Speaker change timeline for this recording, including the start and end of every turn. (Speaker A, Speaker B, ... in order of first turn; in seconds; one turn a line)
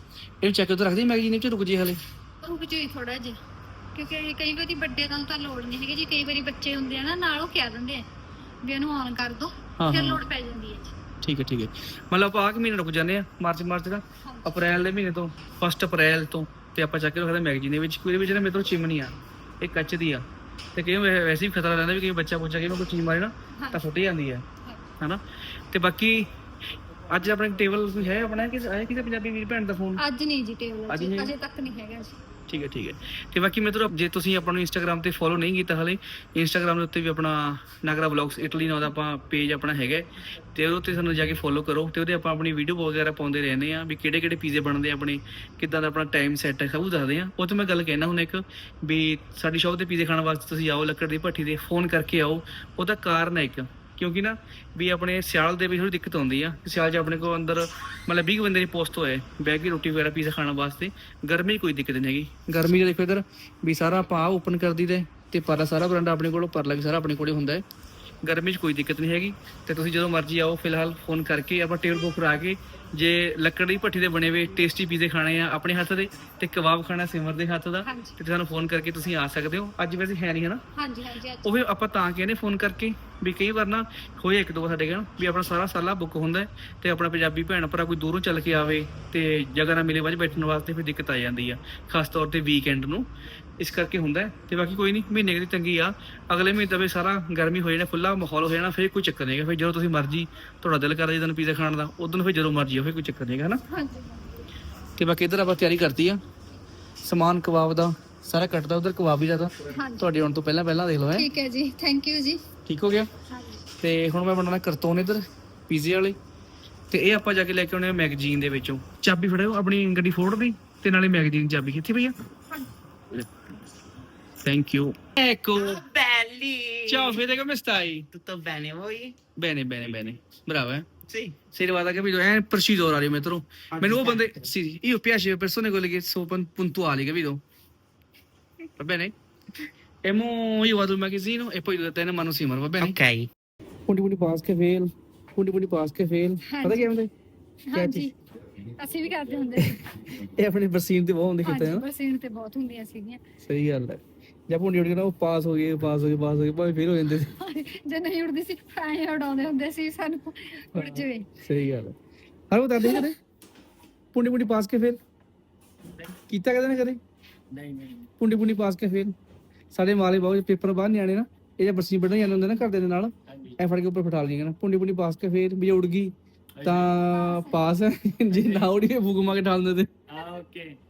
Speaker A: 0.4-2.0
Speaker B: 2.4-3.4
Speaker B: 4.0-8.1
Speaker B: 8.7-10.9
Speaker A: 9.8-10.2
Speaker A: 11.2-24.4
Speaker B: 23.6-23.8
Speaker A: 25.0-26.3
Speaker A: 27.1-30.0
Speaker B: 30.0-32.2
Speaker A: 30.9-31.3
Speaker A: 32.5-67.6
Speaker A: 68.2-80.6
Speaker B: 77.9-78.2
Speaker B: 80.8-81.5
Speaker A: 81.4-93.1
Speaker A: 93.6-103.6
Speaker B: 103.7-104.4
Speaker A: 105.0-106.2
Speaker A: 107.0-111.3
Speaker B: 109.8-110.2
Speaker B: 111.1-112.4
Speaker A: 112.7-113.1
Speaker A: 113.8-116.2
Speaker A: 116.9-122.2
Speaker A: 124.4-125.9
Speaker C: 125.6-127.2
Speaker A: 126.9-128.1
Speaker C: 128.1-129.2
Speaker A: 129.4-137.4
Speaker C: 133.8-134.2
Speaker A: 138.8-139.1
Speaker A: 140.1-143.0
Speaker C: 142.8-143.3
Speaker A: 143.9-147.1
Speaker B: 146.5-146.9
Speaker B: 147.7-148.1
Speaker A: 147.7-148.1
Speaker B: 148.8-150.2
Speaker A: 149.6-151.9
Speaker B: 151.4-153.2
Speaker A: 153.4-157.3
Speaker B: 157.4-161.3
Speaker A: 160.7-162.0
Speaker A: 162.5-163.2
Speaker A: 164.1-165.0
Speaker A: 166.1-167.0
Speaker A: 167.6-169.2
Speaker A: 169.7-180.7
Speaker B: 177.1-177.7